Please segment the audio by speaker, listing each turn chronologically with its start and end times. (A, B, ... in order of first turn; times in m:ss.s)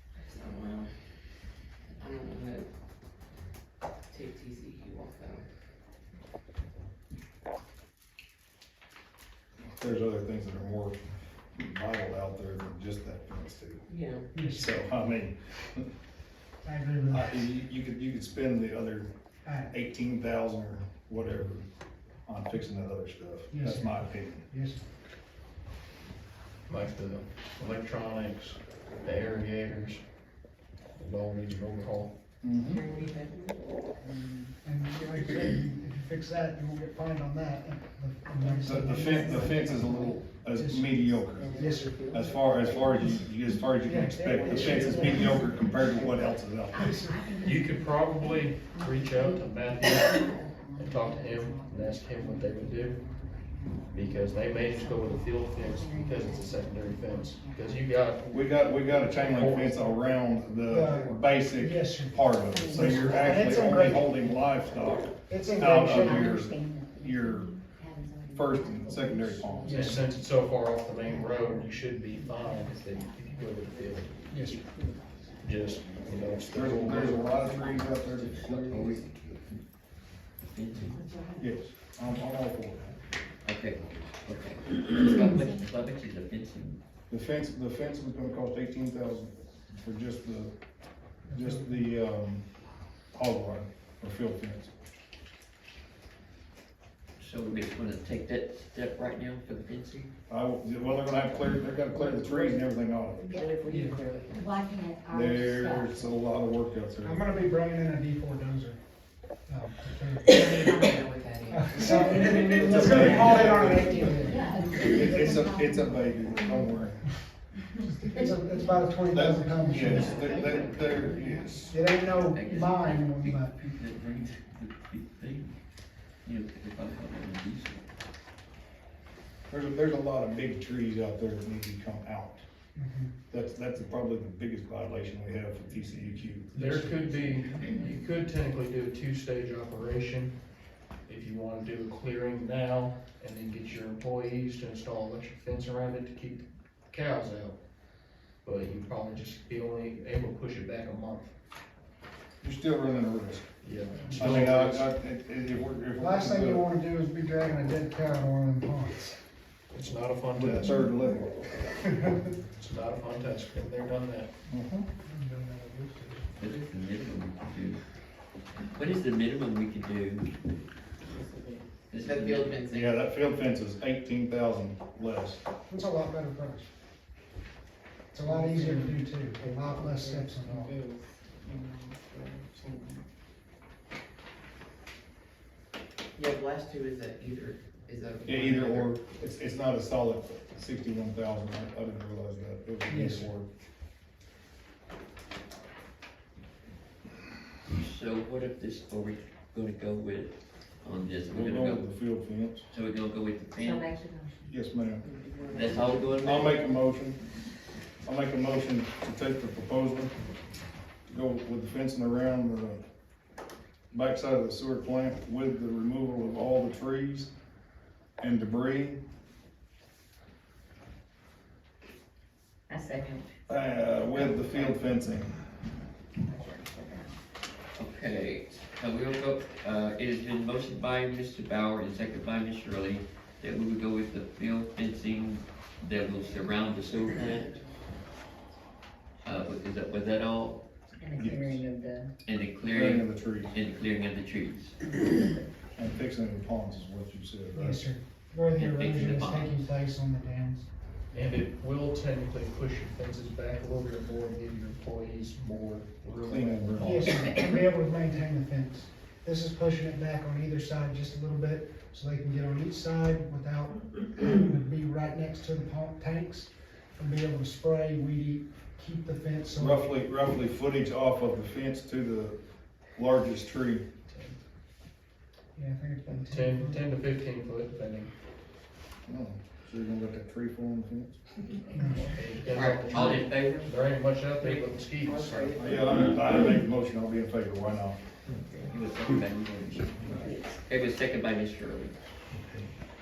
0:00.2-0:01.1 A
0:02.0-0:02.7 A
0:04.1-0:05.5 A
0:09.7-0:11.0 B
0:11.6-0:13.9 B
0:13.9-0:14.3 A
0:14.3-0:14.8 C
0:14.5-0:15.9 B
0:16.6-0:17.5 C
0:17.1-0:19.1 B
0:19.4-0:19.7 C
0:19.7-0:21.7 B
0:22.3-0:24.5 B
0:23.5-0:24.8 C
0:26.7-0:30.0 D
0:31.0-0:32.1 D
0:32.4-0:32.8 B
0:32.6-0:33.6 A
0:34.6-0:42.0 C
0:38.2-0:40.1 E
0:38.6-0:47.1 B
0:41.3-0:43.1 A
0:43.8-0:45.4 C
0:44.2-0:46.5 A
0:46.7-1:01.2 E
0:46.8-0:47.1 C
0:47.4-0:53.1 D
0:53.9-0:58.4 D
0:58.3-1:07.5 B
0:59.0-0:59.8 D
1:00.7-1:04.4 C
1:02.4-1:04.5 E
1:05.3-1:06.4 C
1:05.7-1:09.9 E
1:08.3-1:09.9 B
1:09.6-1:10.0 C
1:09.7-1:14.1 D
1:11.0-1:13.4 E
1:14.3-1:14.6 C
1:14.6-1:17.2 E
1:15.4-1:17.3 D
1:16.5-1:18.9 B
1:17.4-1:18.0 A
1:18.1-1:19.6 F
1:18.8-1:19.0 A
1:20.5-1:21.0 F
1:21.4-1:23.0 B
1:23.4-1:26.8 F
1:27.1-1:30.5 B
1:31.3-1:31.9 C
1:31.3-1:32.5 B
1:33.1-1:34.7 B
1:37.2-1:40.1 F
1:40.3-1:43.3 B
1:41.9-1:42.6 A
1:43.3-1:44.5 A
1:43.3-1:43.6 E
1:43.7-1:44.0 C
1:44.2-1:46.2 E
1:45.1-1:47.2 B
1:47.0-1:48.8 C
1:49.5-1:55.4 C
1:50.3-1:54.1 A
1:52.4-1:57.1 B
1:54.2-1:56.8 E
1:57.8-2:01.7 E
1:57.8-2:00.2 C
1:59.1-2:01.8 B
2:00.0-2:00.4 A
2:01.7-2:03.6 C
2:01.9-2:05.6 F
2:06.2-2:07.9 F
2:09.5-2:12.4 B
2:12.8-2:13.1 C
2:13.3-2:16.5 B
2:16.5-2:20.3 D
2:16.6-2:17.7 C
2:21.1-2:27.6 D
2:28.4-2:31.3 D
2:32.4-2:33.5 B
2:33.6-2:34.9 D
2:34.1-2:36.7 B
2:36.0-2:39.2 C
2:39.7-2:40.8 D
2:40.4-2:41.3 B
2:42.6-2:44.3 D
2:44.5-2:44.9 B
2:45.0-2:46.3 C
2:46.4-2:47.8 F
2:48.7-2:50.3 F
2:51.1-2:53.0 A
2:51.9-2:52.6 F
2:52.7-2:55.4 B
2:55.7-2:56.7 C
2:58.1-3:00.8 C
2:58.2-3:03.0 A
3:06.2-3:09.0 A
3:08.3-3:13.5 B
3:12.9-3:13.3 C
3:17.7-3:21.9 F
3:21.3-3:22.7 B
3:22.7-3:23.9 F
3:23.6-3:24.5 E
3:24.5-3:25.0 B
3:25.0-3:26.1 A
3:25.5-3:26.6 F
3:26.2-3:27.2 B
3:28.0-3:30.1 B
3:31.1-3:32.8 B
3:33.9-3:37.3 B
3:38.2-3:39.0 B
3:42.7-3:43.2 E
3:43.5-3:45.4 B
3:44.2-3:44.7 E
3:46.2-3:47.1 E
3:47.8-3:57.6 F
3:59.2-4:00.6 F
4:01.0-4:02.1 E
4:01.2-4:01.6 B
4:02.2-4:04.8 F
4:02.6-4:03.5 B
4:05.8-4:07.8 B
4:07.5-4:10.7 C
4:08.6-4:09.7 F
4:11.1-4:17.4 D
4:16.2-4:17.2 B
4:16.8-4:29.9 C
4:29.6-4:32.4 B
4:33.0-4:33.8 B
4:34.1-4:34.4 D
4:35.6-4:36.8 C
4:36.1-4:38.1 D
4:39.1-4:41.2 B
4:41.8-4:42.2 C
4:42.0-4:45.6 D
4:42.5-4:43.7 F
4:44.4-4:44.7 F
4:45.0-4:46.2 A
4:45.6-4:48.0 B
4:48.6-4:52.0 F